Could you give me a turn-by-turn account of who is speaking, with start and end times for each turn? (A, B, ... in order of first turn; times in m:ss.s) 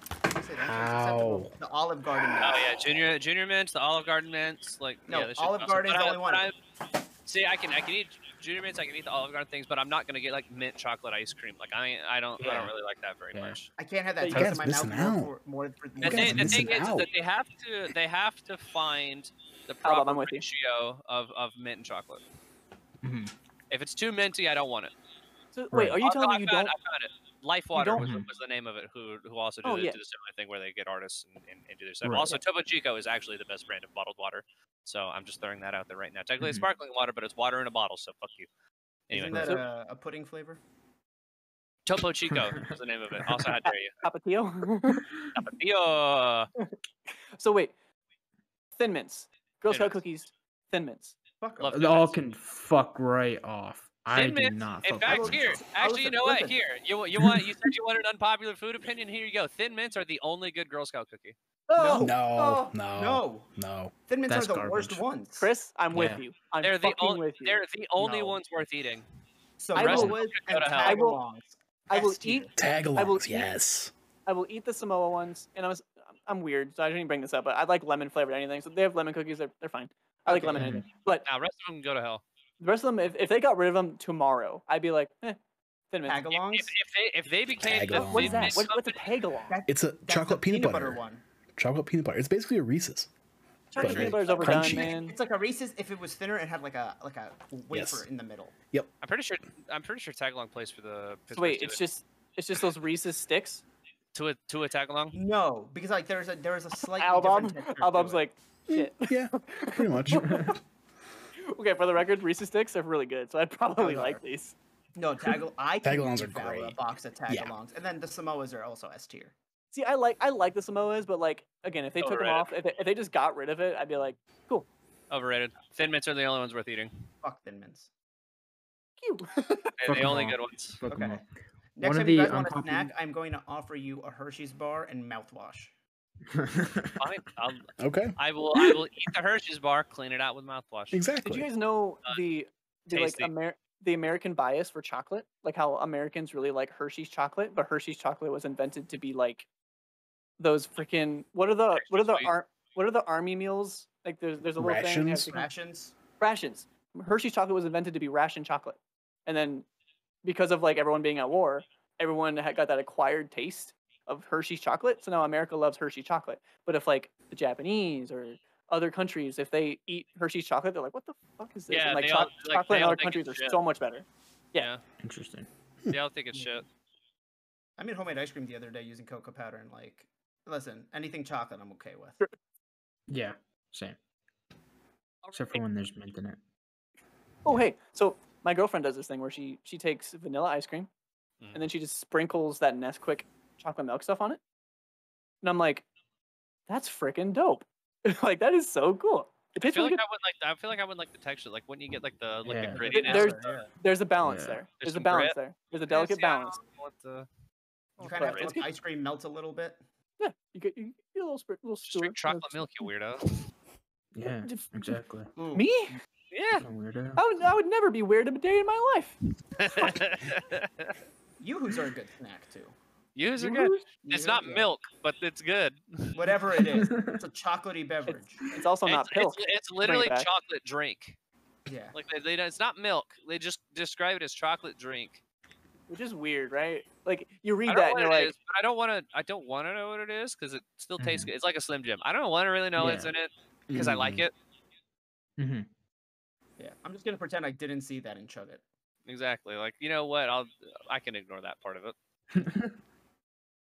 0:00.4-0:03.1 A
0:00.6-0:01.5 B
0:02.4-0:06.5 C
0:05.1-0:06.5 A
0:07.3-0:13.7 C
0:12.4-0:12.7 B
0:13.3-0:13.6 B
0:13.8-0:16.8 A
0:14.2-0:14.5 D
0:14.3-0:15.3 E
0:16.0-0:22.2 C
0:16.0-0:17.1 E
0:16.4-0:16.7 B
0:19.8-0:20.4 D
0:23.0-0:23.3 B
0:23.7-0:24.9 C
0:25.5-0:26.7 D
0:25.7-0:26.0 B
0:26.0-0:38.5 C
0:27.8-0:28.1 D
0:28.0-0:28.3 B
0:29.6-0:30.0 D
0:32.0-0:32.4 B
0:36.4-0:36.7 B
0:39.1-0:39.6 C
0:39.1-0:40.6 A
0:39.3-0:39.6 D
0:41.9-0:43.9 C
0:42.3-0:42.7 B
0:43.2-0:43.5 B
0:43.6-0:45.1 D
0:45.3-0:46.5 C
0:47.4-0:47.7 D
0:48.8-0:51.2 D
0:49.7-0:50.0 C
0:51.4-0:51.8 A
0:51.6-0:52.1 C
0:51.7-0:55.6 B
0:54.1-1:01.4 C
0:55.1-0:56.6 A
1:01.7-1:02.1 D
1:01.8-1:03.5 A
1:01.9-1:03.9 E
1:04.1-1:05.5 A
1:04.3-1:05.0 B
1:05.4-1:07.6 D
1:05.9-1:06.2 B
1:06.6-1:09.0 C
1:08.0-1:08.4 A
1:09.6-1:12.6 A
1:09.7-1:10.2 D
1:09.7-1:11.0 C
1:10.8-1:11.2 D
1:11.9-1:13.5 D
1:12.6-1:13.9 E
1:14.3-1:21.3 D
1:20.3-1:20.8 A
1:20.6-1:20.9 B
1:21.2-1:22.2 C
1:22.6-1:25.4 D
1:25.9-1:26.2 D
1:26.1-1:26.8 A
1:26.3-1:29.0 C
1:27.6-1:28.7 E
1:27.9-1:29.6 D
1:29.5-1:31.2 A
1:29.7-1:31.0 E
1:31.6-1:33.1 E
1:33.7-1:35.2 D
1:33.8-1:34.5 C
1:33.8-1:34.9 E
1:34.3-1:38.6 A
1:37.7-1:38.0 E
1:39.0-1:41.8 C
1:41.3-1:43.6 D
1:44.1-1:45.2 C
1:45.1-1:48.2 A
1:47.0-1:50.5 D
1:48.7-1:50.6 E
1:50.2-1:50.5 B
1:51.4-1:54.6 D
1:53.8-1:54.2 A
1:55.0-1:59.3 A
1:55.8-1:56.8 E
1:59.7-2:04.7 D
2:02.0-2:02.5 C
2:05.1-2:07.1 C
2:07.2-2:07.9 A
2:09.0-2:09.7 D
2:09.8-2:10.8 C
2:09.9-2:11.2 B
2:10.9-2:11.2 A
2:11.8-2:15.7 A
2:11.8-2:12.9 B
2:16.3-2:17.0 B
2:17.0-2:21.0 C
2:17.8-2:18.2 E
2:20.9-2:21.5 E
2:21.2-2:29.5 D
2:22.9-2:23.3 C
2:30.4-2:35.5 D
2:31.8-2:32.3 C
2:34.6-2:35.3 E
2:35.3-2:36.0 A
2:36.2-2:39.7 D
2:40.2-2:54.7 D
2:51.7-2:53.6 C
2:55.0-2:55.5 B
2:55.9-2:56.6 C
2:56.3-2:56.6 A
2:57.8-3:02.2 A
3:03.1-3:04.0 B
3:05.2-3:05.6 C
3:05.3-3:06.4 B
3:07.4-3:10.9 D
3:11.6-3:14.4 D
3:15.4-3:15.9 D
3:16.7-3:20.0 D
3:19.6-3:23.7 C
3:22.4-3:22.8 B
3:22.6-3:23.7 A
3:22.9-3:26.6 D
3:24.2-3:24.6 B
3:24.8-3:25.4 C
3:25.9-3:27.3 C
3:28.0-3:28.6 C
3:28.0-3:29.8 A
3:28.2-3:28.6 D
3:30.2-3:32.9 D
3:31.9-3:33.4 C
3:34.1-3:35.3 B
3:34.4-3:34.7 D
3:35.4-3:35.7 A
3:35.5-3:36.0 D
3:36.3-3:36.6 C
3:36.6-3:37.2 B
3:37.2-3:39.2 D
3:39.5-3:41.0 C
3:41.4-3:42.8 A
3:43.2-3:46.4 C
3:43.4-3:43.9 D
3:44.0-3:44.7 A
3:46.1-3:48.4 A
3:46.7-3:47.2 B
3:48.1-3:50.3 D
3:48.9-3:51.2 C
3:51.7-3:52.0 A
3:51.9-3:55.2 C
3:55.9-3:58.3 D
3:57.7-4:04.3 C
4:01.0-4:01.3 B
4:02.8-4:03.1 B
4:03.7-4:04.3 E
4:05.4-4:05.7 B
4:06.6-4:08.6 A
4:09.1-4:12.0 C
4:12.3-4:12.8 B